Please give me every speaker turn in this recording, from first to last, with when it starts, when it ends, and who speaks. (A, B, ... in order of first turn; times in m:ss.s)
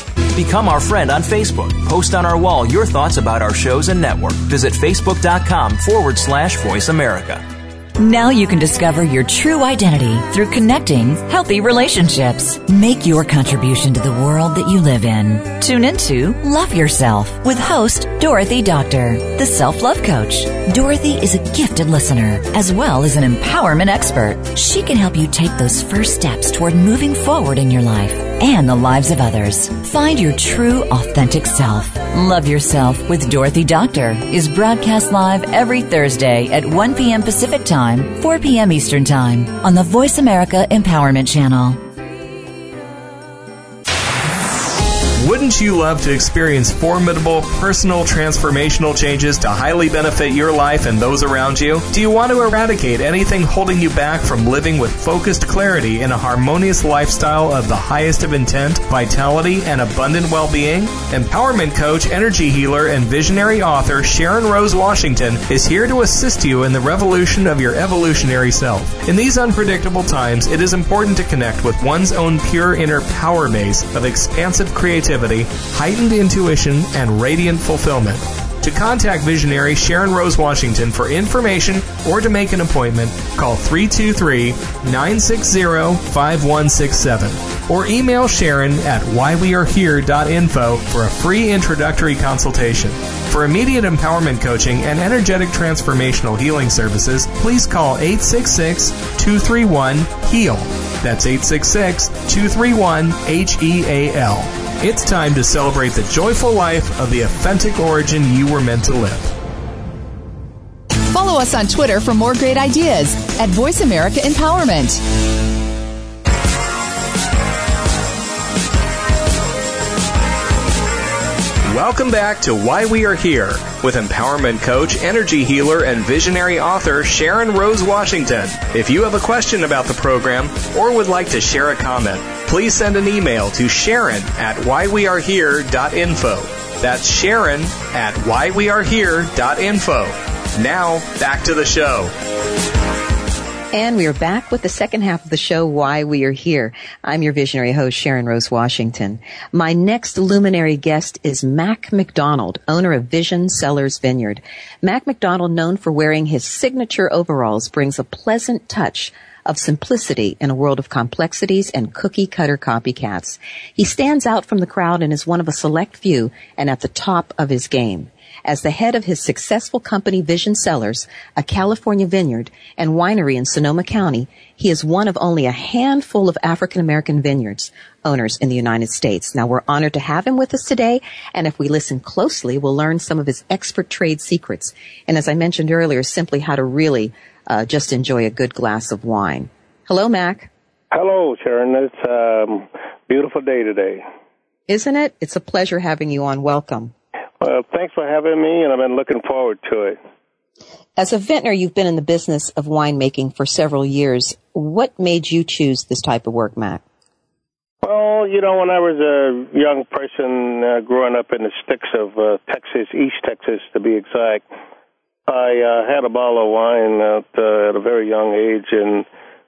0:00.4-0:07.4 A
0:08.0-0:41.8 B
0:45.2-1:49.3 C
1:51.1-1:55.0 D
2:01.7-2:22.1 C
2:23.7-3:10.5 E
3:10.9-3:14.0 F
3:14.7-3:16.9 E
3:17.4-3:20.0 F
3:21.0-3:26.8 E
3:27.8-3:34.4 F
3:35.3-3:39.1 F